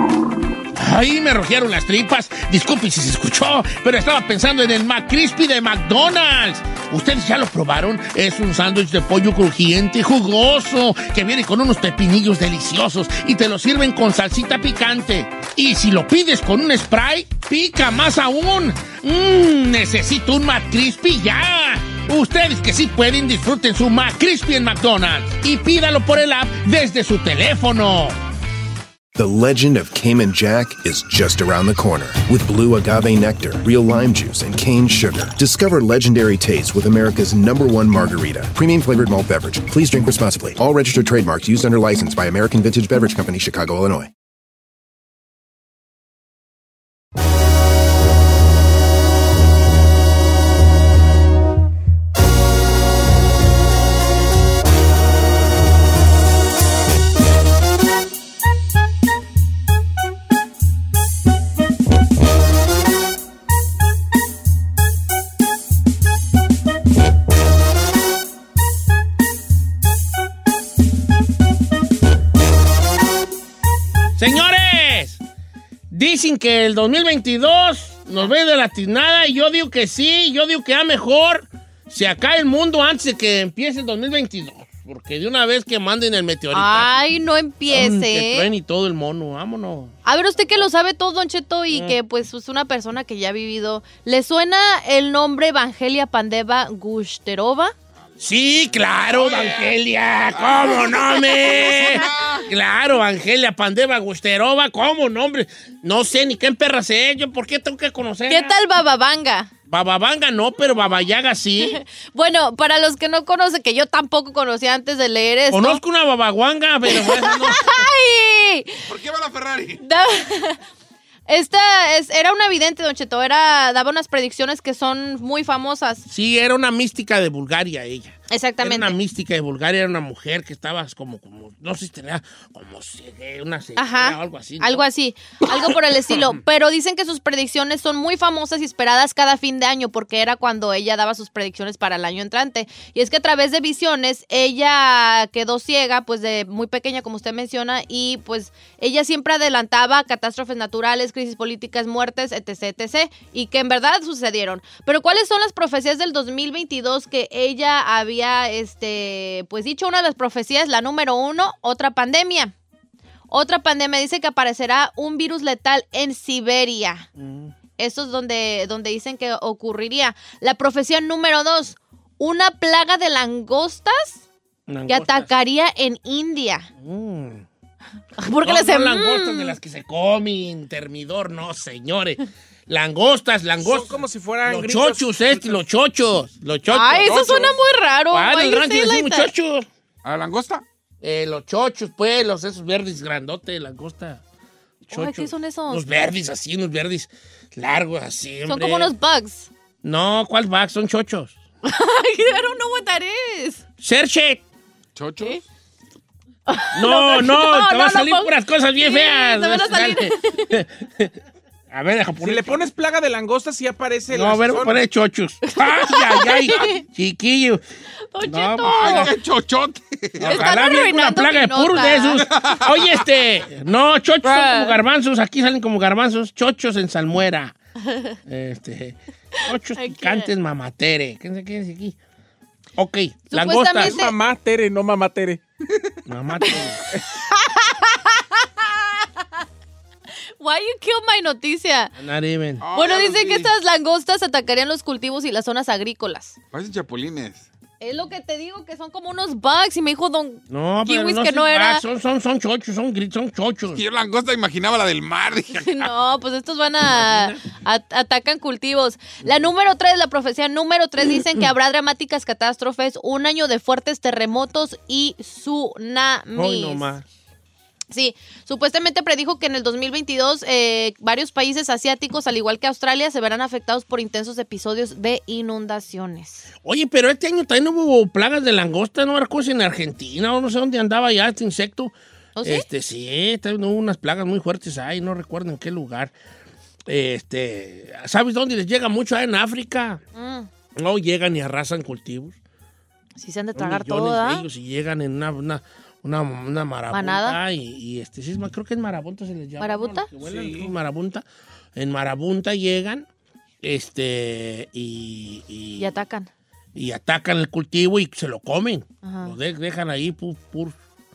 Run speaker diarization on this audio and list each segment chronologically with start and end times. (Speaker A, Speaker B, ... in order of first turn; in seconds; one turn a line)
Speaker A: 0.8-28.2
Speaker B: 29.1-44.1
Speaker A: 74.2-75.2
Speaker A: 75.9-87.0
Speaker C: 86.5-88.5
Speaker A: 87.7-89.9
Speaker C: 90.0-97.7
Speaker A: 91.7-92.0
Speaker A: 98.2-108.5
Speaker D: 99.0-99.8
Speaker D: 100.3-102.5
Speaker C: 108.3-109.5
Speaker A: 109.7-111.8
Speaker C: 111.6-115.8
Speaker A: 115.5-117.8
Speaker C: 116.9-118.8
Speaker D: 118.9-119.8
Speaker C: 119.8-120.6
Speaker C: 121.3-126.1
Speaker A: 126.1-134.8
Speaker C: 128.3-129.0
Speaker C: 133.8-162.5
Speaker C: 163.3-167.1
Speaker A: 167.2-167.5
Speaker C: 167.8-174.2
Speaker A: 174.7-175.3
Speaker C: 174.9-176.7
Speaker A: 176.8-177.4
Speaker C: 178.2-179.6
Speaker A: 178.4-187.4
Speaker E: 183.6-185.6
Speaker C: 186.7-189.3
Speaker D: 187.0-187.6
Speaker A: 188.1-189.7
Speaker D: 190.0-190.6
Speaker A: 191.0-194.2
Speaker A: 194.9-198.9
Speaker C: 194.9-195.8
Speaker C: 198.5-199.5
Speaker A: 199.8-201.4
Speaker C: 201.6-203.6
Speaker A: 203.8-204.4
Speaker D: 204.9-205.4
Speaker C: 206.5-210.5
Speaker A: 206.7-211.1
Speaker A: 211.7-212.6
Speaker E: 212.2-214.8
Speaker A: 214.1-217.6
Speaker C: 215.5-216.8
Speaker C: 218.1-219.1
Speaker A: 218.2-219.1
Speaker D: 218.6-220.6
Speaker A: 220.2-227.6
Speaker C: 220.2-222.3
Speaker D: 222.3-223.0
Speaker C: 224.2-224.8
Speaker C: 227.9-228.2
Speaker A: 228.3-232.0
Speaker C: 229.8-230.3
Speaker A: 232.8-234.0
Speaker C: 233.3-234.1
Speaker E: 233.8-235.4
Speaker A: 236.1-236.8
Speaker C: 237.2-239.1
Speaker C: 240.4-241.9
Speaker A: 242.0-242.7
Speaker D: 242.6-243.5
Speaker C: 242.7-246.4
Speaker D: 246.5-247.5
Speaker C: 247.8-251.8
Speaker A: 250.5-253.8
Speaker D: 253.7-255.9
Speaker C: 255.6-266.9
Speaker A: 256.9-257.4
Speaker A: 266.4-267.1
Speaker C: 267.9-276.5
Speaker A: 276.6-286.1
Speaker C: 282.4-282.7
Speaker A: 286.9-290.0
Speaker C: 290.1-290.5
Speaker A: 290.8-292.4
Speaker C: 293.2-294.5
Speaker A: 293.6-301.2
Speaker C: 296.9-297.4
Speaker C: 299.6-300.1
Speaker E: 300.2-300.7
Speaker A: 301.8-303.1
Speaker A: 303.6-305.9
Speaker C: 305.8-306.3
Speaker A: 306.8-310.8
Speaker C: 309.0-309.4